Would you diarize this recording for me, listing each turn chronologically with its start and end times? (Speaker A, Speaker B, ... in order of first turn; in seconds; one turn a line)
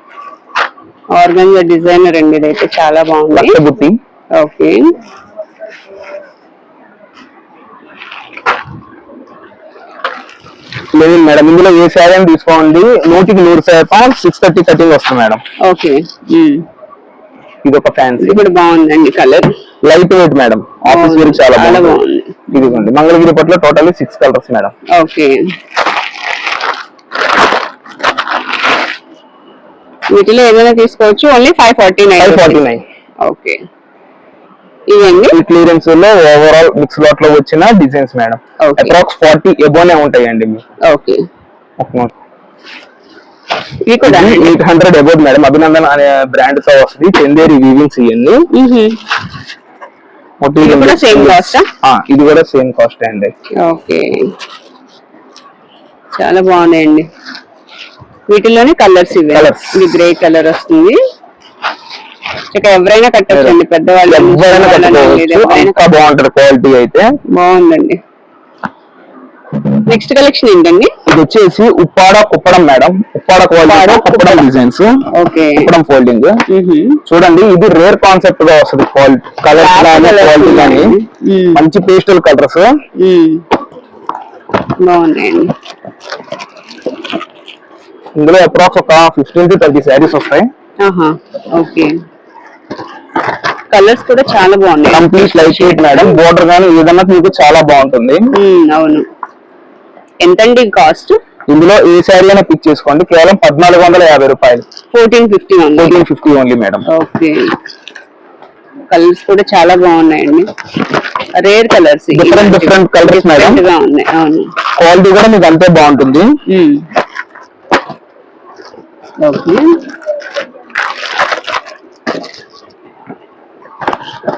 Speaker A: 1.1-3.6
Speaker B: 3.3-4.0
Speaker A: 4.3-4.9
Speaker B: 10.9-15.4
Speaker A: 15.6-16.6
Speaker B: 17.6-18.4
Speaker A: 18.2-19.5
Speaker B: 19.8-22.0
Speaker A: 20.9-22.8
Speaker B: 22.5-24.7
Speaker A: 24.9-25.4
Speaker A: 30.1-32.6
Speaker B: 32.2-32.8
Speaker A: 33.2-33.6
Speaker A: 34.9-35.4
Speaker B: 35.3-40.6
Speaker A: 38.6-38.9
Speaker A: 40.9-41.2
Speaker B: 41.8-42.1
Speaker A: 43.8-44.5
Speaker B: 44.0-48.4
Speaker A: 48.5-49.0
Speaker B: 50.4-53.3
Speaker A: 50.6-51.7
Speaker A: 53.6-54.3
Speaker A: 56.1-57.0
Speaker A: 58.3-61.0
Speaker B: 59.3-59.9
Speaker A: 62.5-65.8
Speaker B: 63.3-63.6
Speaker B: 64.1-67.1
Speaker A: 67.3-68.0
Speaker A: 69.9-70.9
Speaker B: 71.1-74.9
Speaker A: 73.7-74.4
Speaker A: 75.1-75.7
Speaker B: 75.6-76.4
Speaker A: 76.5-77.0
Speaker B: 77.1-81.0
Speaker A: 79.5-81.6
Speaker B: 81.5-82.7
Speaker A: 83.0-83.4
Speaker A: 84.8-85.5
Speaker B: 88.2-90.5
Speaker A: 90.8-91.9
Speaker A: 93.7-96.2
Speaker B: 94.9-98.2
Speaker A: 98.3-99.0
Speaker A: 100.2-101.2
Speaker B: 101.5-104.6
Speaker A: 104.9-106.0
Speaker B: 105.8-106.8
Speaker A: 106.9-107.5
Speaker A: 108.9-110.5
Speaker A: 111.3-114.5
Speaker B: 112.1-113.6
Speaker B: 114.8-116.3
Speaker A: 116.5-116.8
Speaker A: 119.2-119.8